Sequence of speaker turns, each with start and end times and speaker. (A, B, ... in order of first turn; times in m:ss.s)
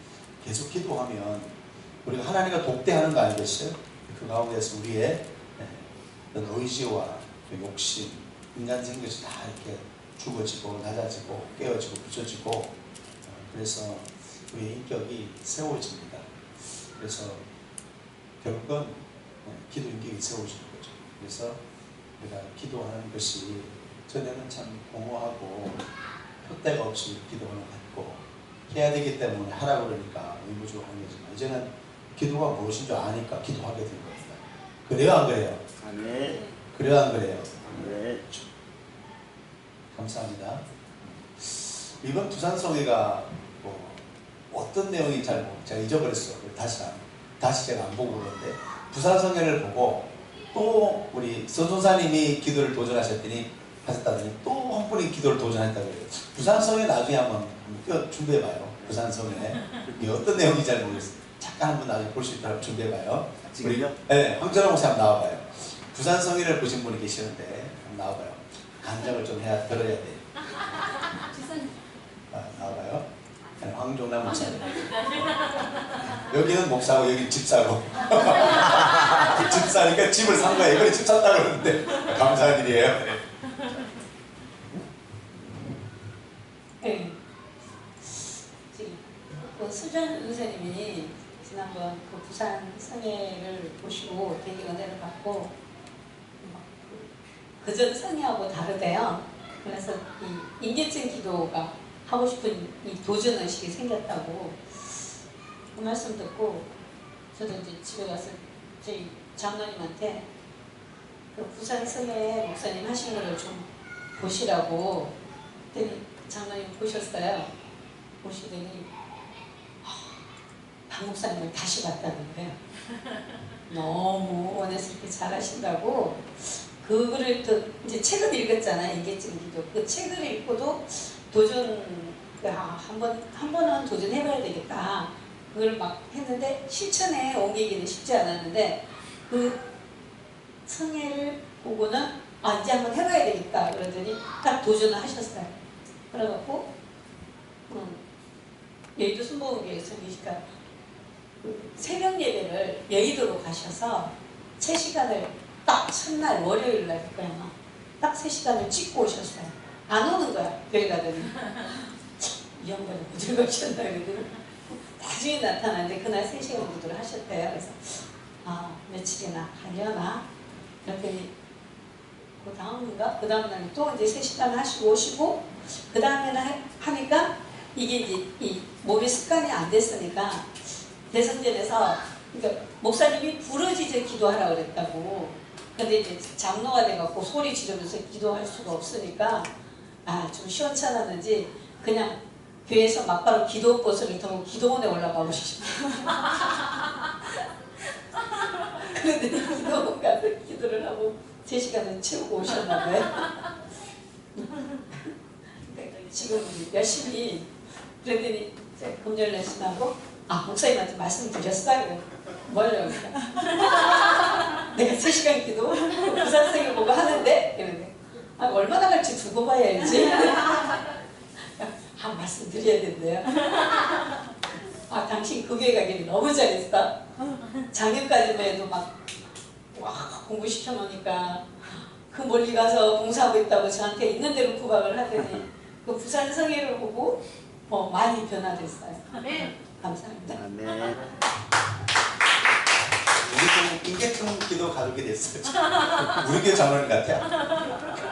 0:00.4-0:17.4 A
0:18.4-0:21.6 A
0:22.2-0:25.9 A
0:26.4-0:35.6 A
0:35.8-0:36.4 B
0:36.7-0:38.5 A
0:37.7-0:38.2 B
0:39.9-0:40.6 A
0:41.4-1:10.3 A
1:03.5-1:03.9 B
1:12.3-1:13.0 A
1:13.6-1:15.3 A
1:16.0-1:23.2 A
1:26.8-1:27.2 C
1:28.1-1:35.5 C
1:36.4-1:45.1 C
1:45.8-1:46.7 C
1:47.3-1:50.2 C
1:51.3-1:55.1 C
1:55.7-1:57.5 C
1:58.2-1:58.9 C
1:59.8-2:00.2 C
2:00.9-2:02.6 C
2:03.7-2:19.6 C
2:20.7-2:25.6 C
2:26.1-2:26.7 C
2:27.7-2:28.0 C
2:29.0-2:30.4 C
2:31.4-2:50.2 C
2:50.8-2:51.3 C
2:52.4-3:09.5 C
3:10.0-3:17.4 C
3:18.1-3:23.5 C
3:24.3-3:27.5 C
3:28.0-3:44.1 C
3:44.9-3:47.0 C
3:47.6-3:48.9 C
3:49.7-4:00.4 C
4:00.4-4:01.0 B
4:03.2-4:07.4 A